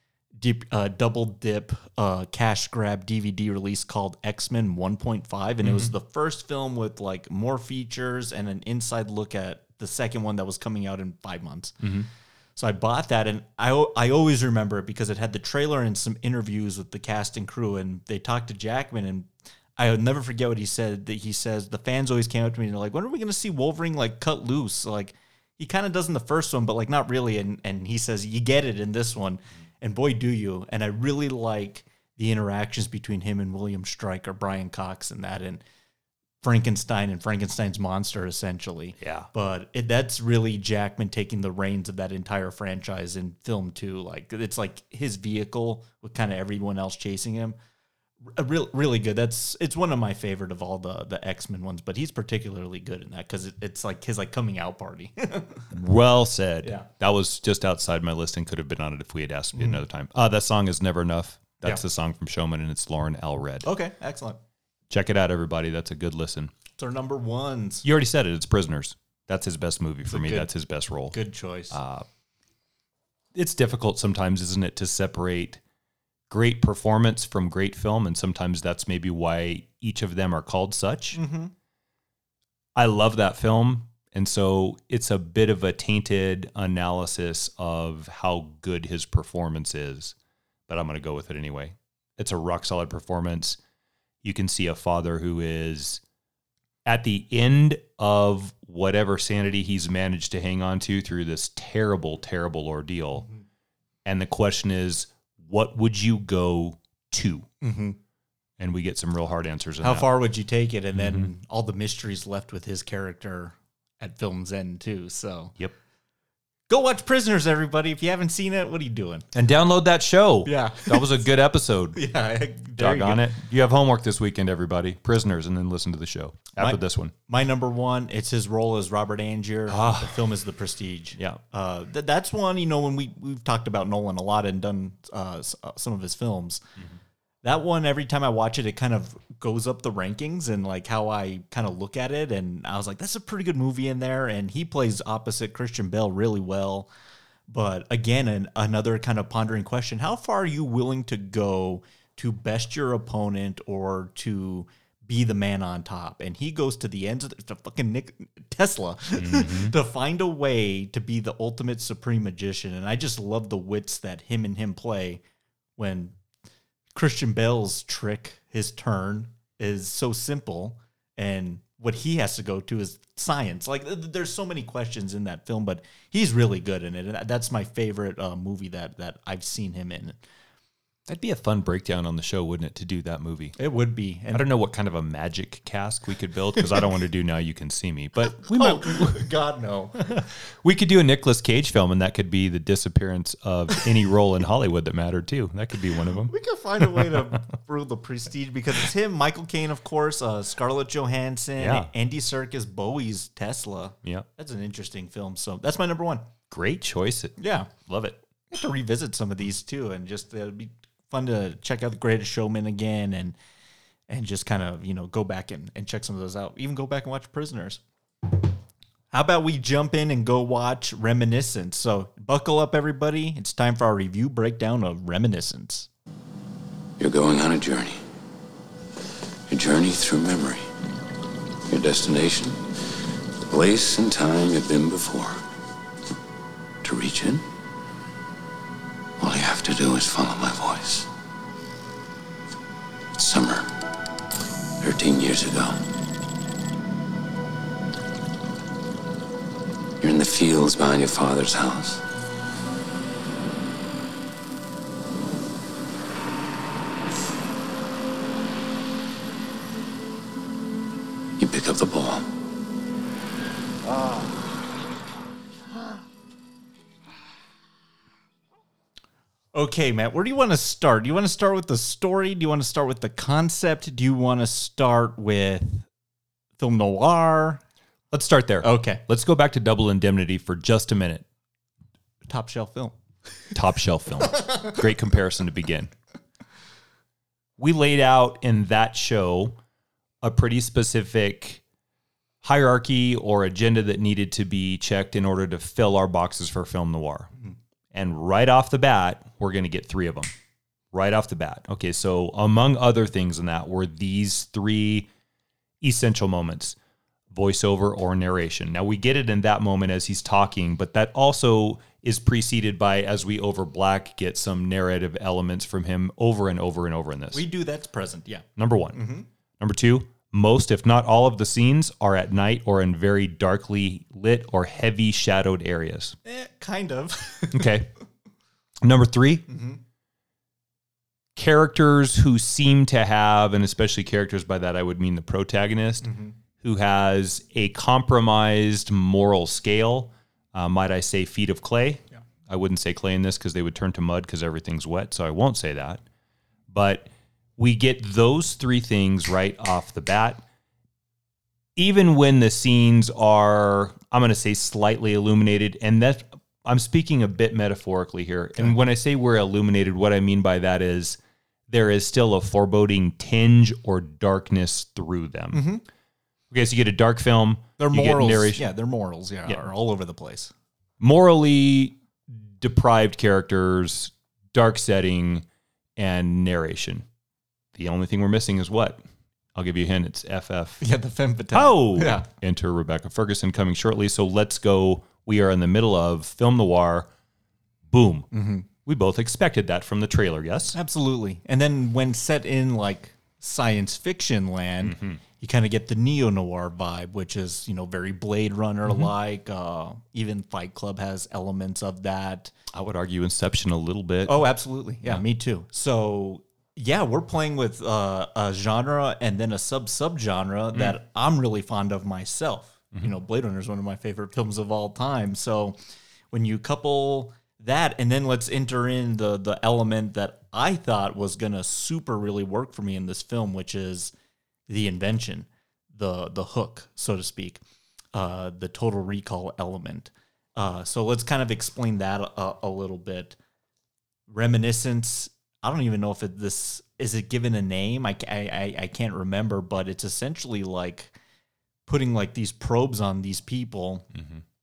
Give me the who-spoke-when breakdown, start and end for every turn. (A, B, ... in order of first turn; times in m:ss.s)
0:00.4-0:11.8 A
0:05.6-0:05.9 B
0:11.8-0:12.1 B
0:12.6-0:35.6 A
0:36.4-0:47.6 A
0:39.0-0:39.3 B
0:48.2-0:55.7 A
0:55.7-1:03.7 B
0:59.5-0:59.8 A
1:03.6-1:04.4 A
1:04.9-1:06.5 B
1:06.8-1:07.8 A
1:07.8-1:11.2 B
1:10.1-1:10.5 A
1:11.1-1:11.8 A
1:11.7-1:12.1 B
1:13.3-1:15.6 B
1:16.3-1:21.2 B
1:21.1-1:21.5 A
1:22.7-1:30.1 B
1:30.7-1:33.6 B
1:34.2-1:36.0 B
1:36.8-1:43.3 B
1:44.0-1:47.5 B
1:47.6-1:48.0 A
1:48.6-1:50.1 B
1:49.8-1:55.5 A
1:51.0-1:51.3 B
1:56.7-1:59.3 A
1:59.3-2:02.0 B
2:00.4-2:01.2 A
2:01.9-2:03.3 A
2:02.8-2:07.1 B
2:06.6-2:16.6 A
2:09.7-2:10.3 B
2:17.4-2:26.9 A
2:27.5-2:45.2 A
2:39.2-2:39.7 B
2:45.8-2:46.2 A
2:46.9-3:00.2 A
3:01.1-3:03.6 B
3:03.6-3:04.4 A
3:04.3-3:09.3 B
3:08.3-3:10.2 A
3:10.1-3:17.2 B
3:16.3-3:26.2 A
3:21.6-3:21.9 B
3:26.5-3:28.2 B
3:27.4-3:27.7 A
3:28.5-3:33.4 A
3:34.1-3:37.8 A
3:39.1-3:45.9 A
3:47.0-3:48.0 C
3:49.5-3:50.7 C
3:51.7-3:52.6 C
3:53.4-3:55.4 C
3:56.8-3:57.4 C
3:59.2-4:01.1 C
4:03.1-4:03.7 C
4:04.8-4:05.8 C
4:10.0-4:12.0 C
4:21.4-4:22.3 C
4:29.5-4:35.9 A
4:36.6-4:37.6 A
4:38.1-4:41.2 B
4:38.6-4:39.0 A
4:42.3-4:43.0 A
4:43.5-4:45.9 B
4:44.4-4:44.7 A
4:47.6-4:49.6 B
4:50.2-4:51.6 B
4:52.4-4:57.3 B
4:57.9-5:00.3 B
5:00.9-5:05.1 B
5:05.8-5:06.8 B
5:07.3-5:17.4 B
5:17.3-5:19.3 A
5:18.6-5:19.0 B
5:19.6-5:26.2 B
5:26.2-5:27.7 A
5:27.5-5:27.9 B
5:28.8-5:29.4 B
5:29.5-5:29.8 A
5:31.4-5:46.0 B
5:36.0-5:36.3 A
5:46.7-5:50.4 B
5:51.8-6:05.6 B
6:05.5-6:05.8 A
6:06.5-6:08.6 B
6:07.8-6:10.5 A
6:11.0-6:12.0 B
6:12.6-6:17.1 B
6:17.7-6:19.0 B
6:19.5-6:20.8 B
6:20.8-6:22.3 A
6:21.5-6:27.1 B
6:27.9-6:28.3 B
6:28.3-6:28.6 A
6:28.8-6:30.8 B
6:30.7-6:42.5 A
6:34.8-6:35.2 B
6:42.7-6:44.4 B
6:44.2-6:55.8 A
6:56.3-7:04.1 A
7:04.7-7:07.6 A
7:08.1-7:13.4 A
7:14.3-7:21.1 A
7:21.9-7:24.1 A
7:24.1-7:24.4 B